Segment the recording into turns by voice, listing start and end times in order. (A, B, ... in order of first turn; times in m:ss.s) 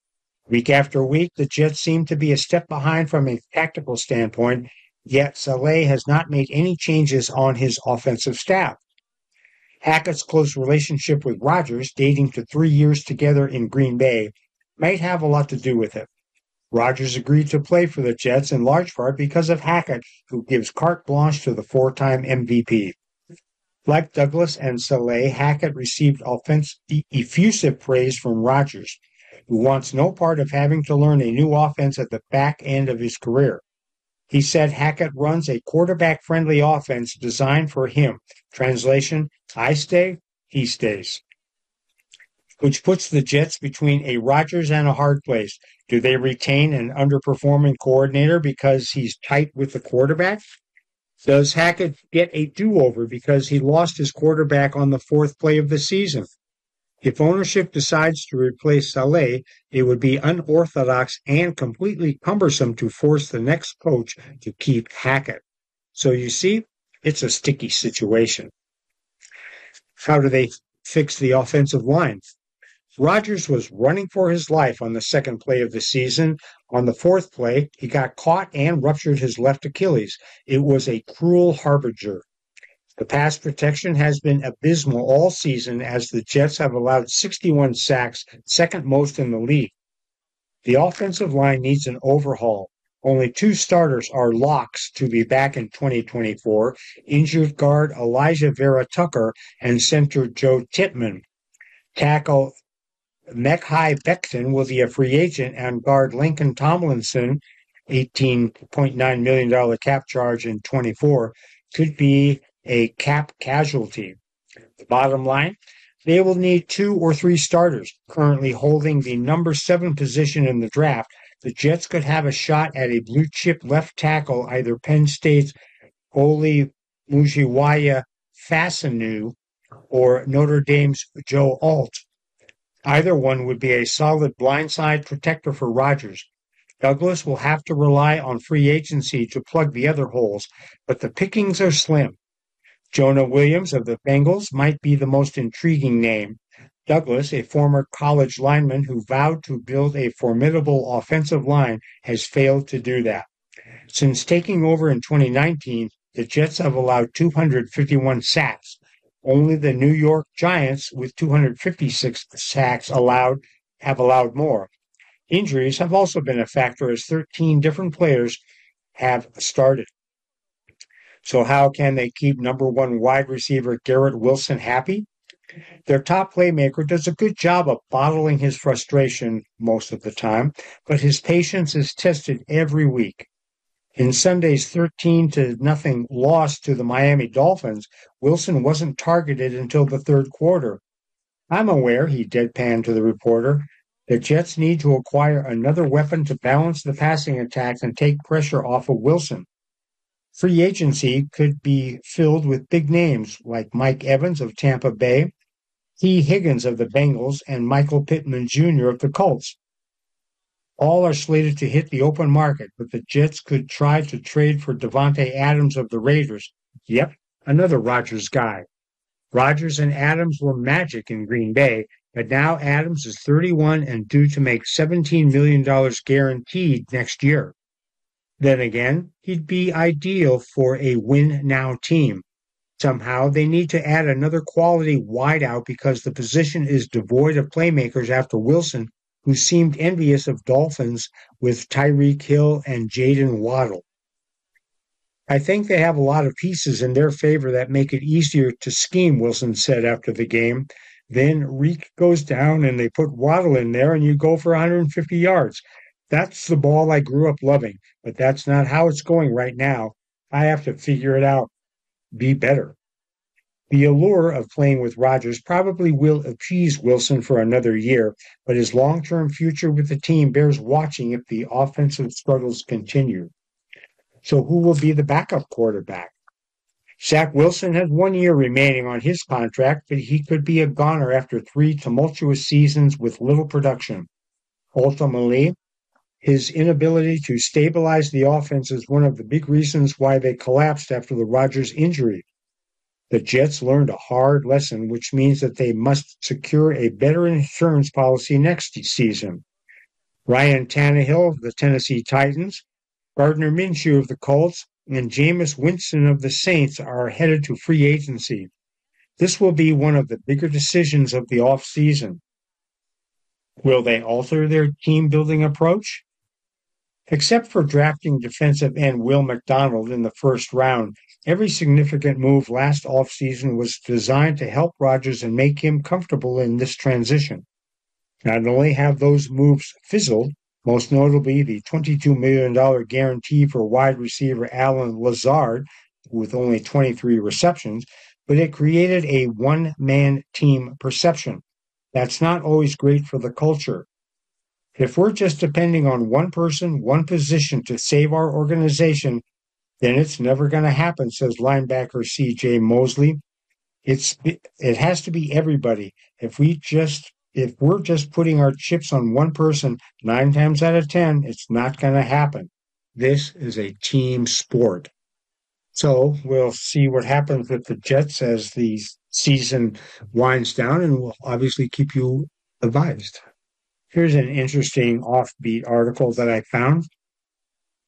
0:00.5-0:08.8 A
0:09.8-0:16.1 A
0:16.7-0:23.0 A
0:23.9-0:33.6 A
0:34.3-0:41.2 A
0:42.6-0:50.4 A
0:51.2-0:56.3 A
0:57.0-1:05.4 A
1:06.0-1:08.5 A
1:10.0-1:12.2 A
1:13.0-1:22.2 A
1:23.0-1:29.7 A
1:30.6-1:41.2 A
1:42.0-1:42.5 A
1:43.3-1:54.2 A
1:54.8-2:05.6 A
2:06.1-2:09.4 A
2:09.9-2:12.0 A
2:12.9-2:16.3 A
2:16.8-2:22.2 A
2:22.9-2:33.3 A
2:33.9-2:44.7 A
2:45.3-2:48.4 A
2:49.0-2:49.9 A
2:51.2-2:55.1 A
2:55.9-3:03.3 A
3:04.0-3:10.8 A
3:11.5-3:19.5 A
3:20.4-3:25.3 A
3:26.0-3:29.6 A
3:30.8-3:38.6 A
3:39.3-3:47.5 A
3:48.4-3:52.2 A
3:52.8-4:03.8 A
4:05.3-4:21.5 A
4:22.1-4:22.8 A
4:23.7-4:33.3 A
4:34.2-4:36.2 A
4:37.0-4:44.1 A
4:44.8-4:45.6 A
4:46.2-4:52.2 A
4:53.1-4:59.4 A
5:00.3-5:02.6 A
5:03.2-5:08.5 A
5:09.2-5:12.2 A
5:13.6-5:16.0 A
5:17.1-5:27.4 A
5:28.2-5:41.4 A
5:41.9-5:43.9 A
5:44.8-5:49.2 A
5:49.8-5:53.2 A
5:53.9-6:04.9 A
6:05.8-6:13.2 A
6:13.9-6:16.9 A